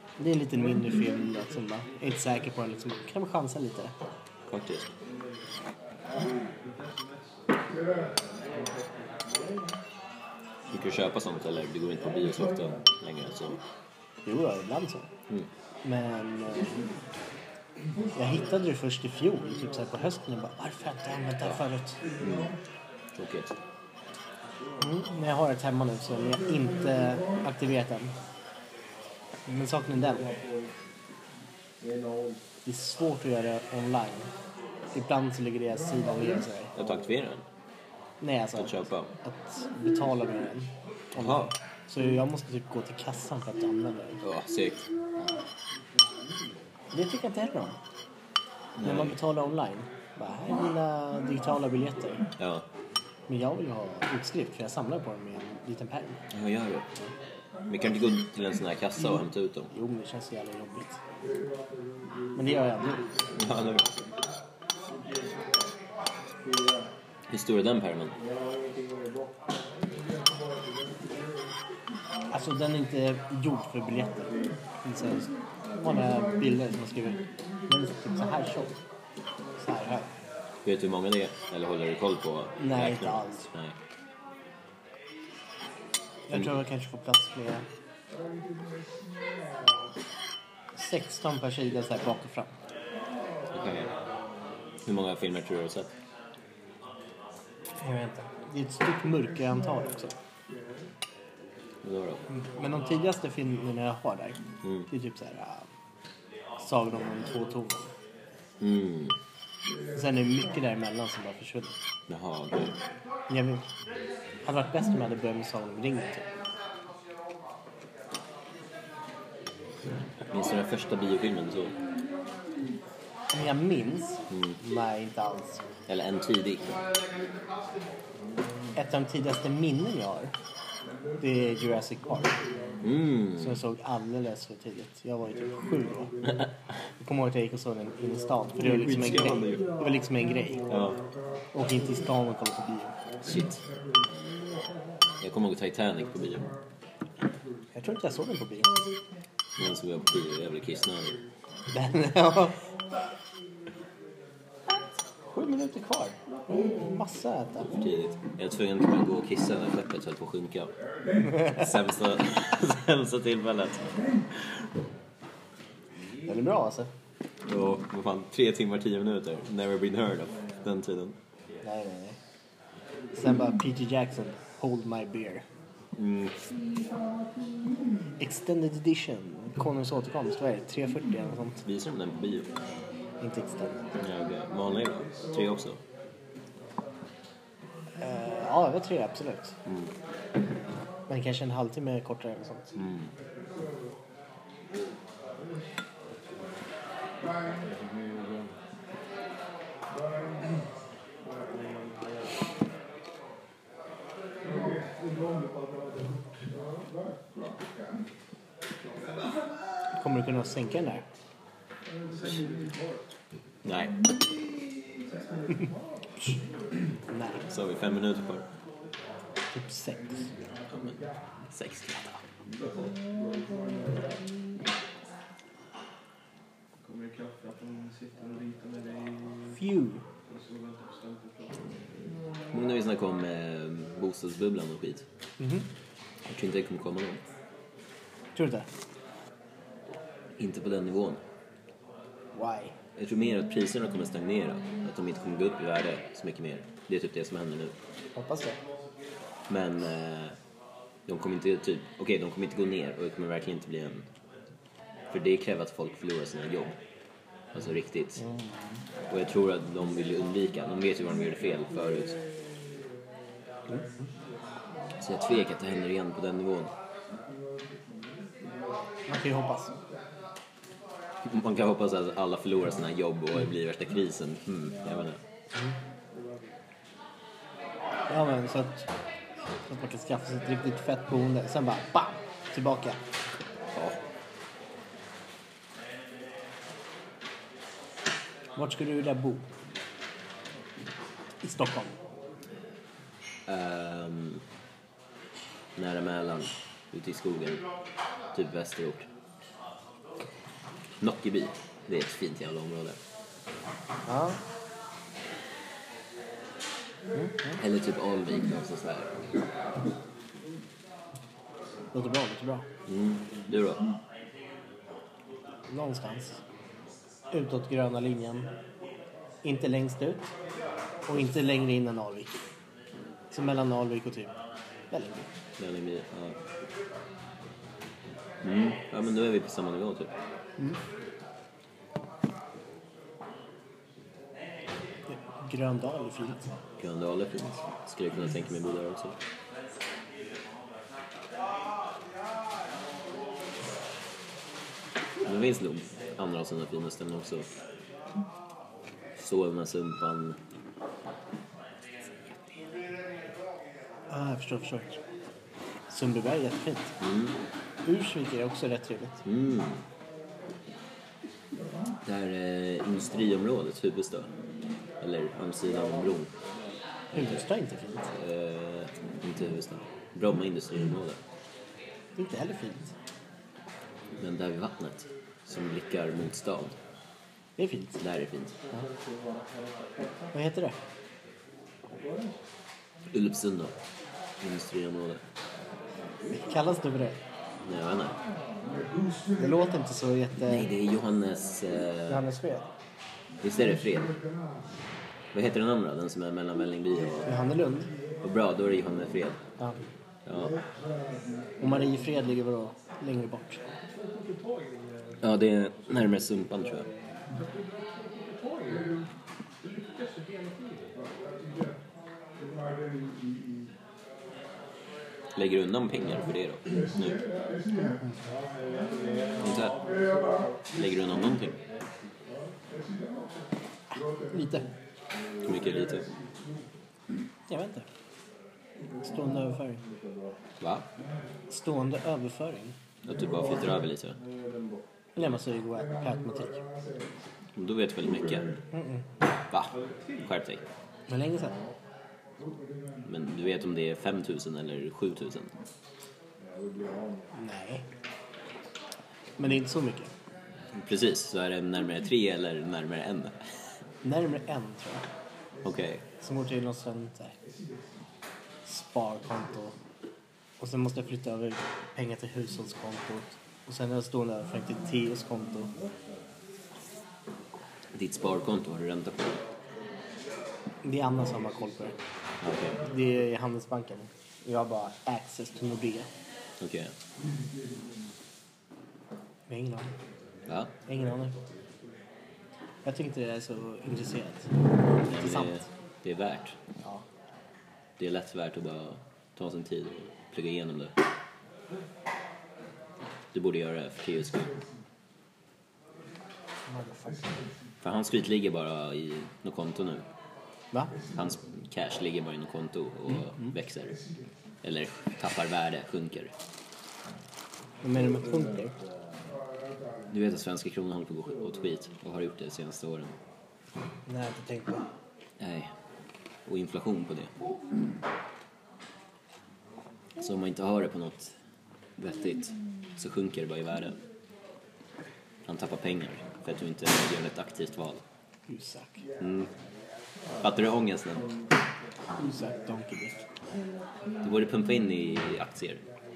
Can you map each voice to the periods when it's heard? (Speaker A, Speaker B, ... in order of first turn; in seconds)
Speaker A: 0.2-4.0, 14.2-15.1, 15.8-16.9, 18.1-22.2, 24.8-28.1, 29.4-30.3, 32.6-34.3, 34.9-36.8, 38.2-44.2, 46.9-47.8, 48.8-52.3, 53.3-56.2, 59.7-61.0, 62.4-63.3, 72.3-78.8, 79.6-80.1, 82.6-83.5, 86.3-87.7, 90.7-92.5, 97.8-100.1, 102.3-105.7, 106.6-107.9, 109.9-111.8, 113.3-113.6, 114.4-116.2, 123.3-125.6, 128.8-130.3, 131.2-132.5, 133.3-136.3, 137.0-140.8, 141.5-143.0, 147.7-148.8, 151.7-152.6, 155.3-157.7, 166.2-166.9, 171.6-172.2, 173.1-175.4, 178.2-181.6, 183.2-184.0, 188.0-189.6, 191.1-192.7, 209.9-211.1, 217.1-217.4, 219.5-220.3, 229.5-230.0, 235.4-235.7, 238.3-238.7, 242.3-242.7, 248.2-248.6, 258.2-258.8, 269.1-269.8, 278.1-278.9, 279.7-283.0, 288.6-289.4, 291.4-291.9, 304.1-304.4, 307.1-307.6, 311.9-312.6, 315.7-316.4, 317.3-318.5, 319.4-320.3, 321.1-322.4, 323.3-324.4, 324.9-325.3, 335.1-336.4, 354.1-355.0, 355.9-357.0, 357.8-359.2, 367.1-368.1, 372.1-372.9, 377.6-378.0, 380.3-380.8, 386.3-387.2, 389.3-390.7, 392.1-392.7, 397.2-397.9, 401.6-403.6, 423.9-424.7, 427.5-427.9, 429.0-429.8, 431.5-432.8, 435.1-436.6, 438.7-439.0, 441.1-441.6, 447.3-447.9, 449.4-450.1, 454.0-455.1, 456.2-457.4, 458.6-459.8, 460.6-465.7, 470.8-471.9, 472.9-476.1, 479.5-479.9, 480.9-481.4, 482.9-485.6, 496.7-497.4, 500.7-501.0, 507.8-508.8, 514.1-514.9, 528.5-529.1, 532.2-533.2
Speaker B: 4.5-4.9, 10.7-13.6, 22.2-22.6, 23.1-23.5, 36.7-37.4, 38.5-39.1, 41.1-41.5, 44.2-44.9, 48.8-49.1, 52.4-52.6, 56.3-56.9, 57.7-59.7, 63.3-63.9, 67.3-68.2, 80.6-83.8, 93.5-93.9, 94.8-95.9, 101.8-102.2, 108.6-109.2, 112.1-112.8, 120.3-121.8, 125.9-126.8, 132.8-133.5, 138.6-139.7, 140.7-141.1, 143.2-143.6, 145.2-146.5, 149.6-151.2, 157.7-164.0, 167.4-171.2, 175.9-176.4, 181.6-182.5, 184.0-185.8, 189.7-189.9, 192.8-193.1, 213.6-214.1, 217.5-218.4, 220.7-222.2, 232.5-235.0, 236.2-237.2, 240.4-241.2, 242.9-247.8, 249.5-250.4, 251.1-254.1, 255.1-256.7, 257.5-258.2, 259.1-262.2, 265.0-266.7, 271.2-275.2, 283.7-284.0, 293.5-294.4, 295.8-297.6, 298.3-299.1, 301.0-303.0, 307.6-309.2, 312.9-313.9, 325.6-326.4, 328.4-330.1, 336.8-339.2, 345.2-347.5, 349.2-350.4, 357.0-357.4, 359.2-359.8, 362.0-364.3, 365.0-366.3, 367.1-367.4, 368.1-371.2, 374.2-376.8, 378.0-378.6, 383.1-383.7, 384.4-385.2, 387.6-388.2, 390.5-392.2, 393.4-394.2, 395.3-397.3, 398.2-399.4, 400.2-400.6, 405.2-406.9, 415.4-417.3, 419.4-419.9, 420.6-421.6, 425.4-426.1, 430.6-430.9, 433.0-434.2, 437.6-438.5, 439.5-440.6, 443.0-445.5, 450.7-453.4, 455.6-456.0, 467.9-469.4, 472.4-472.8, 476.6-476.9, 480.5-480.7, 485.0-486.6, 488.0-491.0, 493.3-494.6, 497.8-500.1, 501.1-504.0, 504.6-506.3, 510.1-513.1, 515.4-515.7, 516.4-517.3, 520.2-521.3, 522.0-524.0, 525.5-528.0, 529.2-529.5, 530.4-531.3, 534.2-535.8
Speaker C: 6.5-9.4, 212.0-213.0, 215.1-215.6, 226.8-229.6, 230.2-232.1, 403.9-405.2, 407.3-409.0, 409.6-411.0, 439.7-440.3